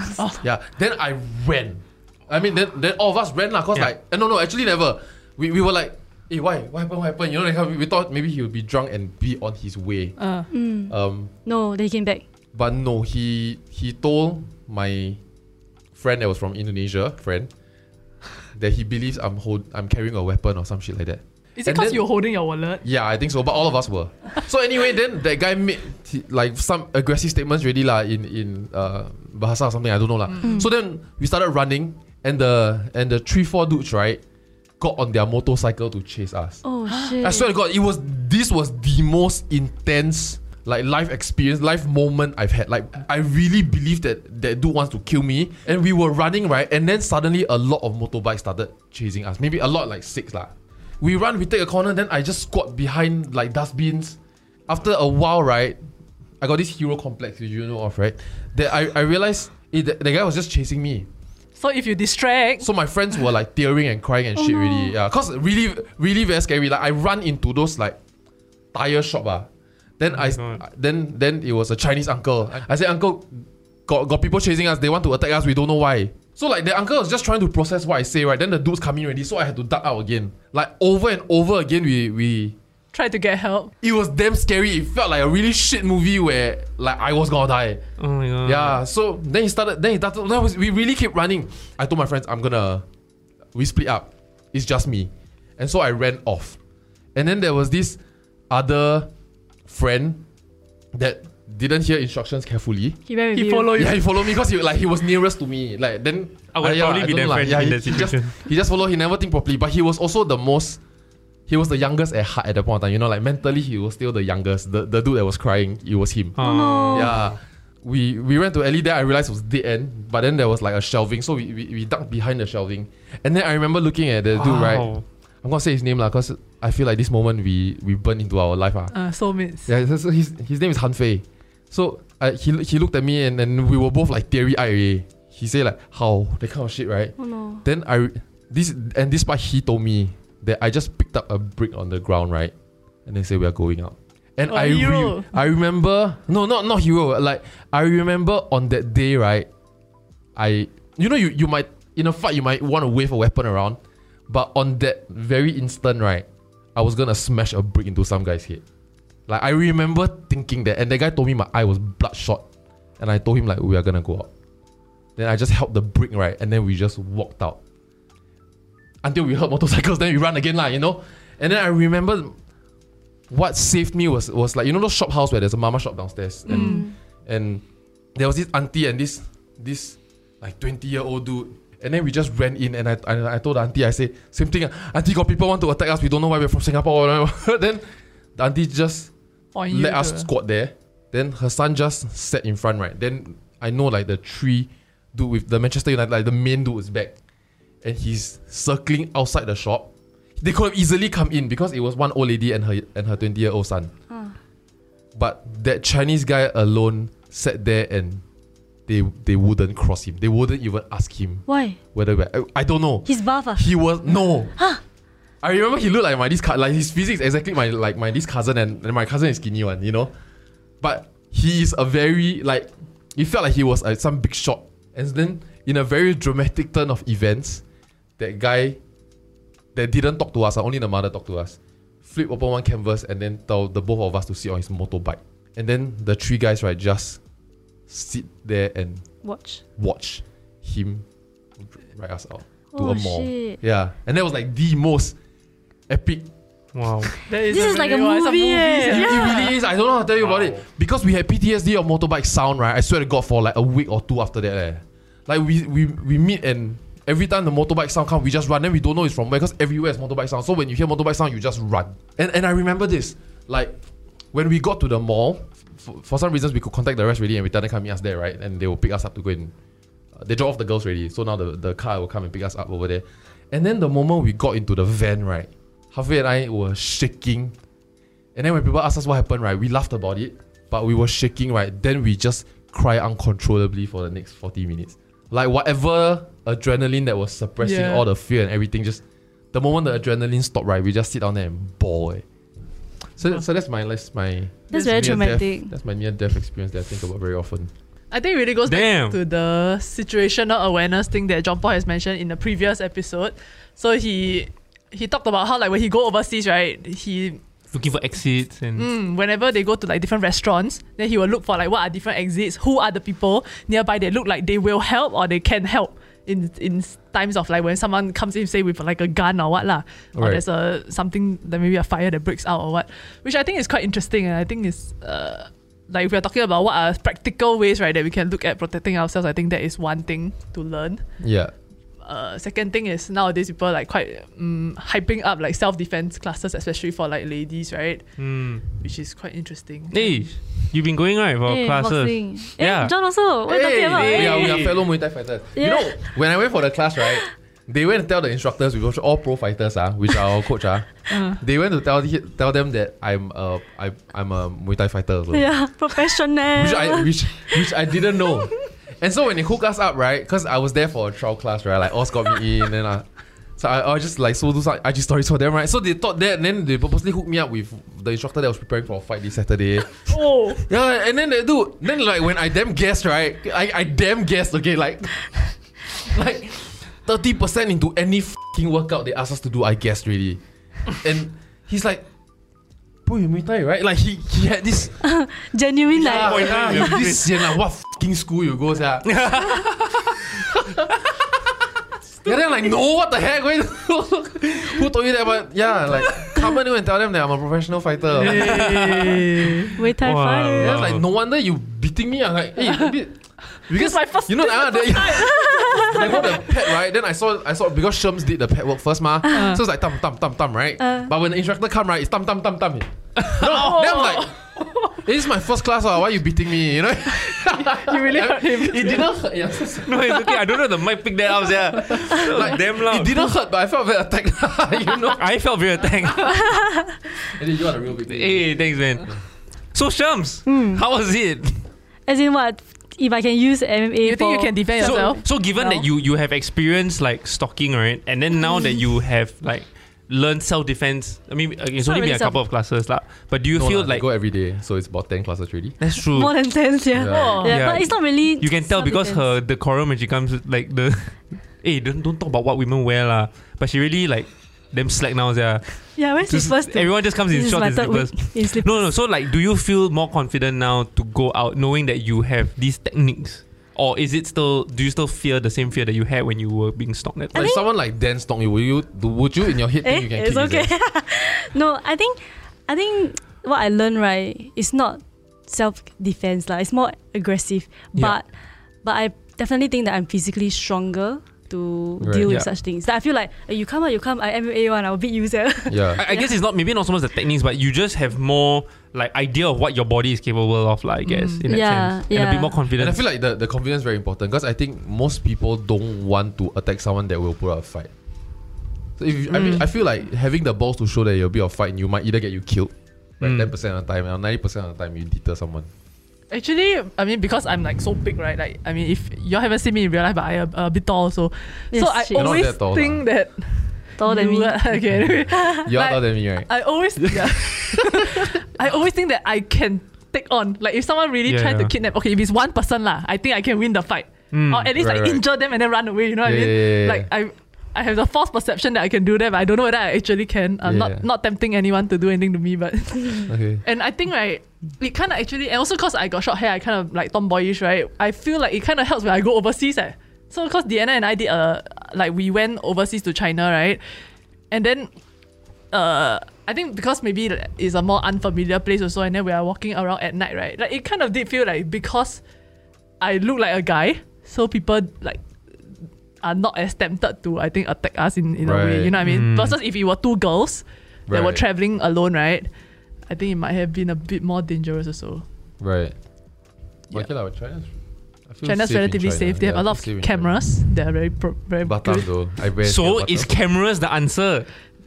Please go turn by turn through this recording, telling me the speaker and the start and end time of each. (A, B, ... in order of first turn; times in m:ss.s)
0:00.4-0:10.2 A
0:10.2-0:10.5 B
0:10.5-0:12.2 C
0:10.9-0:11.3 A
0:12.5-0:15.2 A
0:16.0-0:17.5 A
0:18.5-0:22.0 A
0:21.6-0:22.8 B
0:22.8-0:34.2 A
0:34.8-0:36.6 A
0:36.6-0:37.5 C
0:36.9-0:37.1 B
0:37.2-0:54.2 A
0:54.7-0:55.9 A
0:56.4-1:01.1 A
1:01.6-1:02.7 B
1:02.6-1:08.0 A
1:04.4-1:04.9 C
1:08.7-1:09.5 A
1:10.0-1:22.6 A
1:10.2-1:10.6 D
1:22.9-1:23.7 B
1:23.8-1:27.8 A
1:28.0-1:28.8 D
1:28.4-1:32.8 A
1:33.5-1:36.6 A
1:37.2-1:38.0 A
1:38.5-1:39.1 A
1:39.7-1:40.2 A
1:40.9-1:43.0 A
1:43.1-1:43.8 C
1:43.3-1:44.0 B
1:43.8-1:50.8 A
1:46.5-1:48.3 D
1:51.5-1:56.4 A
1:56.4-1:57.2 C
1:56.4-1:57.2 D
1:56.9-2:04.9 A
2:04.4-2:05.0 D
2:05.4-2:08.9 A
2:08.9-2:09.7 B
2:09.7-2:22.5 A
2:17.2-2:17.6 C
2:23.1-2:29.5 A
2:24.5-2:25.3 B
2:30.4-2:38.6 A
2:39.3-2:42.4 A
2:43.0-2:44.3 A
2:45.2-2:47.6 A
2:49.0-2:52.4 A
2:53.3-2:57.6 A
2:56.5-2:56.9 C
2:56.5-2:56.8 B
2:58.2-3:09.1 A
3:09.6-3:10.3 B
3:09.7-3:17.1 A
3:17.8-3:19.9 A
3:20.4-3:23.9 A
3:25.2-3:28.2 A
3:28.9-3:34.5 A
3:31.5-3:31.8 C
3:33.1-3:33.6 C
3:35.4-3:40.1 A
3:40.8-3:47.6 A
3:48.2-3:48.8 A
3:49.8-3:57.2 A
3:57.9-3:59.0 A
3:59.2-3:59.6 C
3:59.8-4:01.0 A
4:01.6-4:05.2 A
4:02.7-4:03.6 C
4:05.9-4:06.3 A
4:06.8-4:07.1 D
4:07.3-4:09.4 B
4:07.5-4:09.5 C
4:08.9-4:23.8 A
4:24.3-4:29.5 A
4:30.1-4:37.6 A
4:38.4-4:49.0 A
4:47.6-4:48.0 B
4:49.5-4:52.2 A
4:53.2-4:57.7 A
4:54.7-4:55.7 C
4:54.7-4:55.3 B
4:58.1-5:07.4 B
4:58.7-4:59.2 D
5:07.7-5:08.9 D
5:08.8-5:31.0 B
5:20.2-5:20.4 A
5:31.2-5:31.5 A
5:32.0-5:38.0 B
5:38.2-5:38.6 D
5:38.7-5:40.2 B
5:39.9-5:42.9 D
5:41.5-5:44.6 C
5:43.5-5:55.5 A
5:43.9-5:44.7 D
5:45.6-5:46.0 C
5:51.1-5:51.4 B
5:55.3-5:57.7 C
5:56.5-6:20.4 A
6:10.1-6:10.6 B
6:20.9-6:22.0 A
6:23.1-6:25.0 A
6:25.0-6:27.1 C
6:25.9-6:29.7 A
6:26.0-6:27.3 D
6:29.1-6:29.9 D
6:32.2-6:38.9 A
6:38.2-6:39.7 B
6:38.4-6:39.1 D
6:39.8-6:40.8 C
6:40.0-6:41.0 D
6:40.6-7:00.2 A
6:43.6-6:46.3 B
6:49.3-6:49.6 B
6:50.8-6:51.1 C
6:53.2-6:53.6 D
6:53.5-6:54.9 B
6:57.2-6:59.0 B
6:59.8-7:03.2 D
7:01.9-7:05.2 A
7:05.2-7:06.6 D
7:07.3-7:09.2 A
7:08.1-7:09.1 D
7:09.7-7:11.7 D
7:10.5-7:10.8 C
7:12.1-7:15.2 C
7:14.0-7:15.8 B
7:14.8-7:24.0 D
7:18.4-7:18.8 C
7:21.8-7:22.4 C
7:23.5-7:25.8 A
7:25.8-7:26.3 D
7:26.1-7:29.3 C
7:26.9-7:27.4 A
7:27.1-7:27.6 B
7:27.4-7:47.4 D
7:36.0-7:38.7 C
7:47.3-7:47.6 C
7:47.4-7:50.7 A
7:49.8-7:58.3 C
7:58.8-8:06.3 C
8:02.0-8:02.3 A
8:05.7-8:06.0 A
8:06.0-8:13.0 D
8:11.1-8:11.4 B
8:11.5-8:12.6 C
8:12.8-8:17.9 A
8:19.0-8:25.7 A
8:26.3-9:04.9 B
8:31.7-8:32.4 C
8:32.2-8:33.0 A
8:34.0-8:34.6 C
8:35.4-8:36.5 A
8:37.1-8:37.4 A
8:41.3-8:41.7 D
8:44.3-8:44.7 D
8:44.8-8:45.2 A
8:46.2-8:47.1 A
8:50.6-8:51.0 A
8:53.3-8:53.6 A
9:05.7-9:12.2 B
9:13.0-9:15.2 B
9:16.2-9:22.5 B
9:18.4-9:18.9 A
9:19.0-9:19.6 D
9:21.1-9:21.4 A
9:23.1-9:25.2 B
9:25.6-9:26.0 A
9:26.9-9:27.7 A
9:28.3-9:30.3 A
9:28.4-9:32.1 B
9:31.6-9:33.3 A
9:32.6-9:34.5 D